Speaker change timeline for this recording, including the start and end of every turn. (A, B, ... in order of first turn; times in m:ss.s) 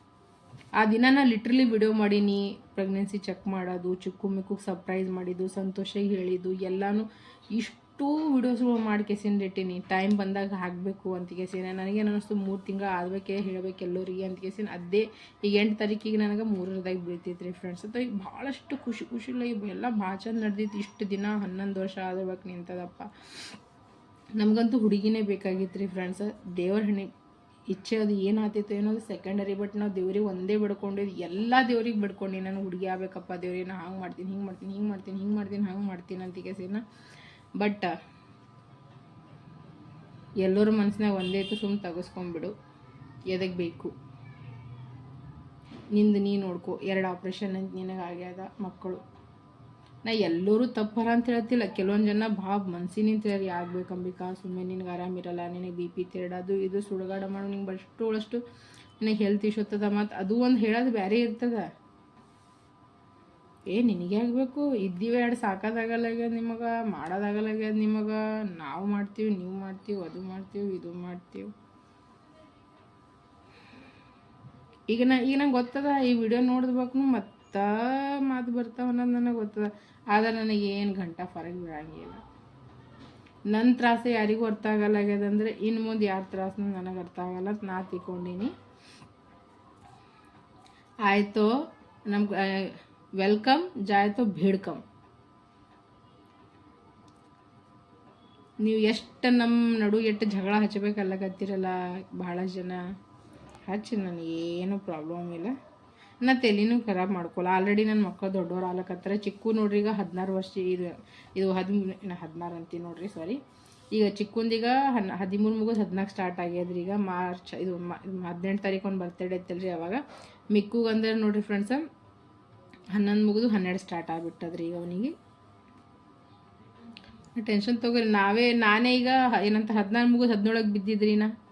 0:00.8-0:23.1 A
0:24.4-0:27.1 A
0:27.7-0:36.8 A
0:37.6-0:37.9 A
0:40.4-0:42.5 A
0:43.3-0:43.9 A
0:45.9-0:49.0 A
0:50.0-0:58.4 A
0:59.0-1:01.7 A
1:03.7-1:11.5 A
1:14.9-1:17.7 A
1:18.3-1:22.2 A
1:23.5-1:28.5 A
1:31.1-1:31.5 A
1:32.1-1:34.8 A
1:38.6-1:42.8 A
1:43.7-1:45.5 A
1:46.2-1:53.4 A
1:53.9-2:00.0 A
2:00.5-2:01.8 A
2:03.0-2:05.1 A
2:07.4-2:11.3 A